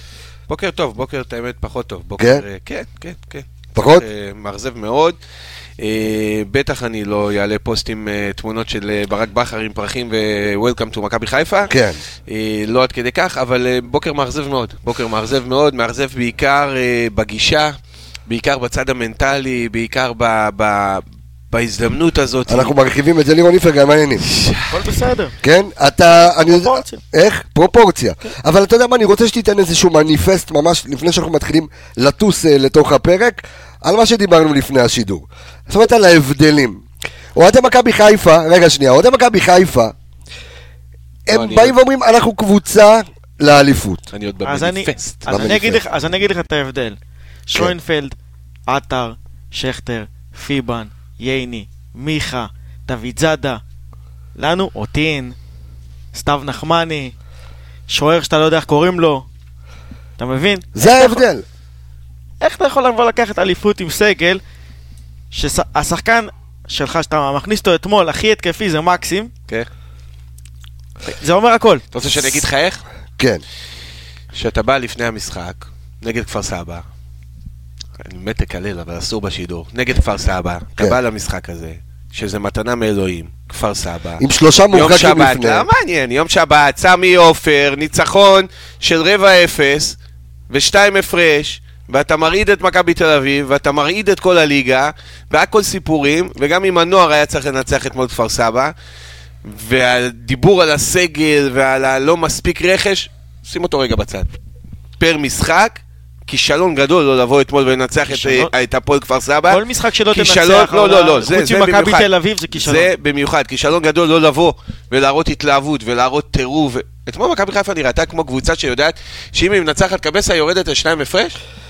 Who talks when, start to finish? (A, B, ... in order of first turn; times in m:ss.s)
0:00.5-0:05.2 A
0:02.2-0:02.4 B
0:03.8-0:04.0 B
0:05.8-0:11.7 A
0:11.7-0:12.0 B
0:12.3-0:17.7 A
0:18.3-0:22.7 A
0:22.5-0:24.2 B
0:24.2-0:24.8 A
0:24.7-0:25.3 C
0:25.4-0:36.8 B
0:26.4-0:27.0 C
0:37.4-0:39.9 B
0:41.3-0:44.0 B
0:41.3-0:41.8 A
0:44.1-0:45.6 A
0:44.4-0:48.2 C
0:45.3-0:45.8 B
0:48.7-0:53.6 C
0:54.4-0:55.4 C
0:56.1-0:57.1 C
0:57.9-0:59.3 C
1:00.2-1:01.2 C
1:00.8-1:01.4 B
1:02.4-1:04.4 C
1:05.3-1:09.3 C
1:11.0-1:11.8 C
1:11.9-1:12.8 A
1:14.3-1:16.8 A
1:18.0-1:30.0 A
1:24.2-1:25.7 B
1:30.5-1:38.7 A
1:39.4-1:44.3 A
1:45.0-2:01.4 A
1:48.1-1:48.5 C
1:49.5-1:52.9 C